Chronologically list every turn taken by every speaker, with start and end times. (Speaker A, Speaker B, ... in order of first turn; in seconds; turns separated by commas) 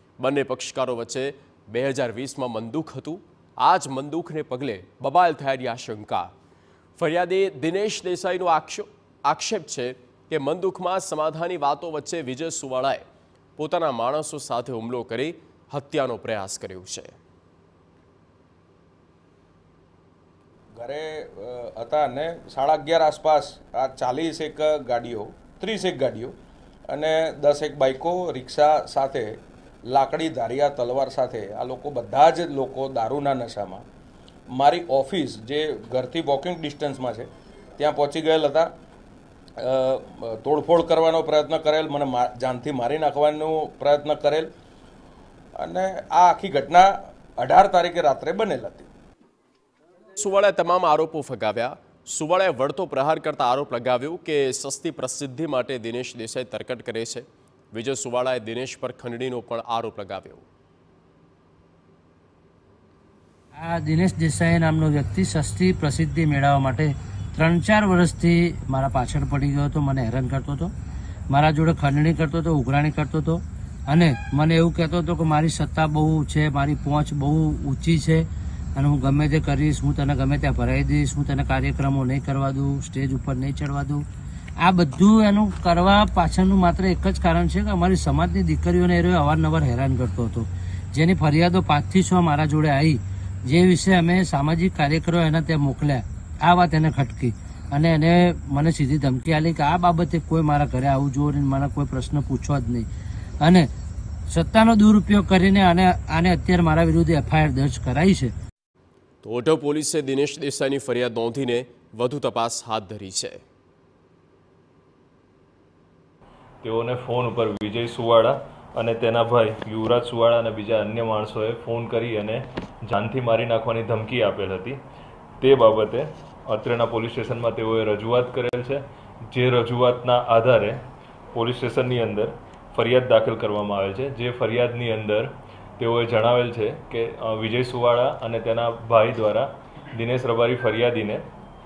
Speaker A: 0.2-6.3, Speaker A: 7.0-13.0, Speaker A: 13.6-17.2, Speaker B: 20.8-26.3, Speaker B: 26.9-29.4, Speaker B: 29.9-33.8, Speaker B: 34.5-38.7, Speaker B: 39.6-44.5, Speaker B: 45.6-48.9, Speaker A: 50.2-60.5, Speaker C: 63.6-70.7, Speaker C: 71.3-84.0, Speaker C: 84.6-102.9, Speaker C: 103.4-103.7, Speaker C: 104.3-108.3, Speaker A: 109.2-113.4, Speaker D: 116.6-124.8, Speaker D: 125.4-128.8, Speaker D: 129.3-130.8, Speaker D: 131.3-141.2